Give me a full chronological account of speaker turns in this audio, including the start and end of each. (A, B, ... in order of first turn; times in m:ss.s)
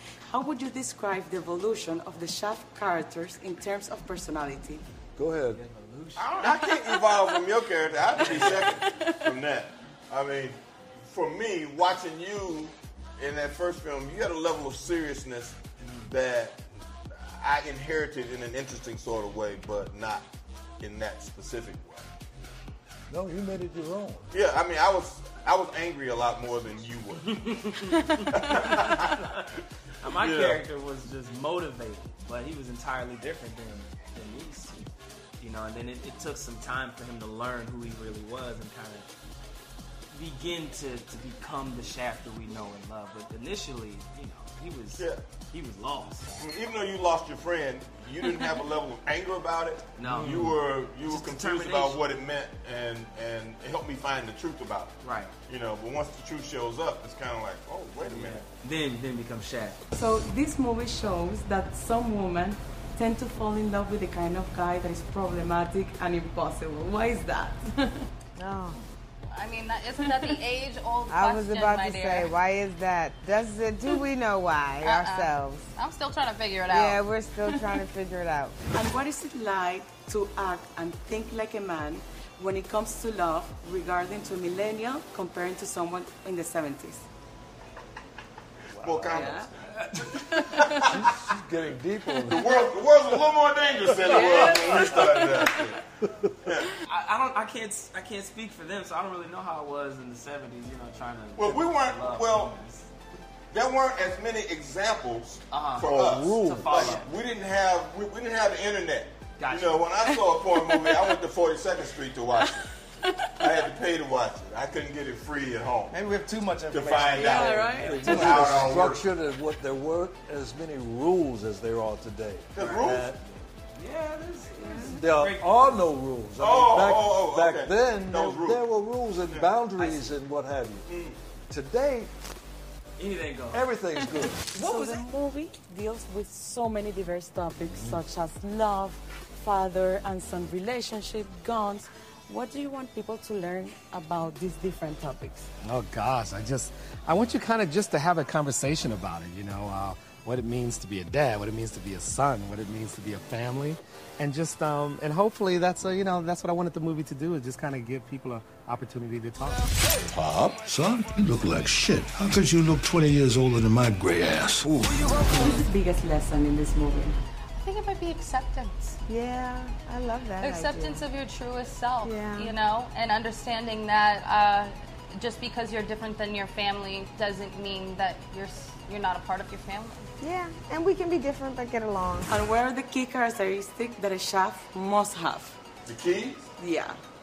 0:00.2-0:04.8 A
0:05.2-0:05.6 B
0:05.5-0:06.6 C
0:06.2-0:16.6 D
0:08.0-0:08.7 C
0:08.7-0:09.1 A
0:15.8-0:16.1 C
0:17.1-0:20.3 D
0:20.8-0:22.1 D
0:23.1-0:24.3 B
0:24.3-0:27.2 D
0:27.4-0:29.4 C
0:28.3-0:29.2 D
0:30.0-0:34.9 C
0:30.1-0:30.6 D
0:35.4-0:39.1 C
0:40.1-0:46.5 C
0:46.4-0:54.9 D
0:49.9-0:52.0 C
0:55.0-0:55.3 C
0:55.4-0:58.5 D
0:58.0-0:59.8 C
0:59.9-1:08.1 A
1:08.4-1:08.8 E
1:09.3-1:12.3 F
1:11.1-1:15.7 E
1:14.8-1:17.0 F
1:16.7-1:18.6 E
1:18.7-1:27.1 A
1:28.8-1:29.7 D
1:28.8-1:29.2 B
1:29.1-1:29.5 A
1:29.4-1:30.1 C
1:30.1-1:30.9 A
1:30.8-1:31.1 D
1:30.9-1:32.5 B
1:32.2-1:35.8 D
1:34.0-1:35.7 A
1:34.0-1:35.0 C
1:36.8-1:42.9 C
1:41.4-1:42.6 D
1:43.5-1:52.6 D
1:45.5-1:47.1 C
1:45.9-1:47.1 B
1:49.4-1:49.9 C
1:50.6-1:51.0 A
1:53.4-1:56.0 D
1:55.9-1:58.3 C
1:56.7-1:59.1 D
1:57.2-1:58.4 A
1:57.7-2:03.2 B
2:02.5-2:03.1 D
2:02.6-2:02.9 C
2:03.7-2:05.8 C
2:04.7-2:04.9 A
2:05.0-2:10.9 B
2:06.4-2:08.7 D
2:09.3-2:09.6 D
2:09.8-2:10.1 C
2:10.8-2:11.2 D
2:11.5-2:12.1 B
2:13.0-2:13.7 C
2:13.5-2:14.6 B
2:14.5-2:25.5 A
2:14.6-2:15.0 C
2:17.7-2:18.0 B
2:25.6-2:39.6 G
2:40.6-2:44.6 H
2:45.3-2:47.2 A
2:47.6-2:49.0 F
2:49.1-2:51.0 E
2:50.4-3:00.1 F
2:52.0-2:52.5 E
3:00.2-3:02.3 E
3:02.3-3:05.6 A
3:05.9-3:06.5 D
3:06.6-3:07.0 A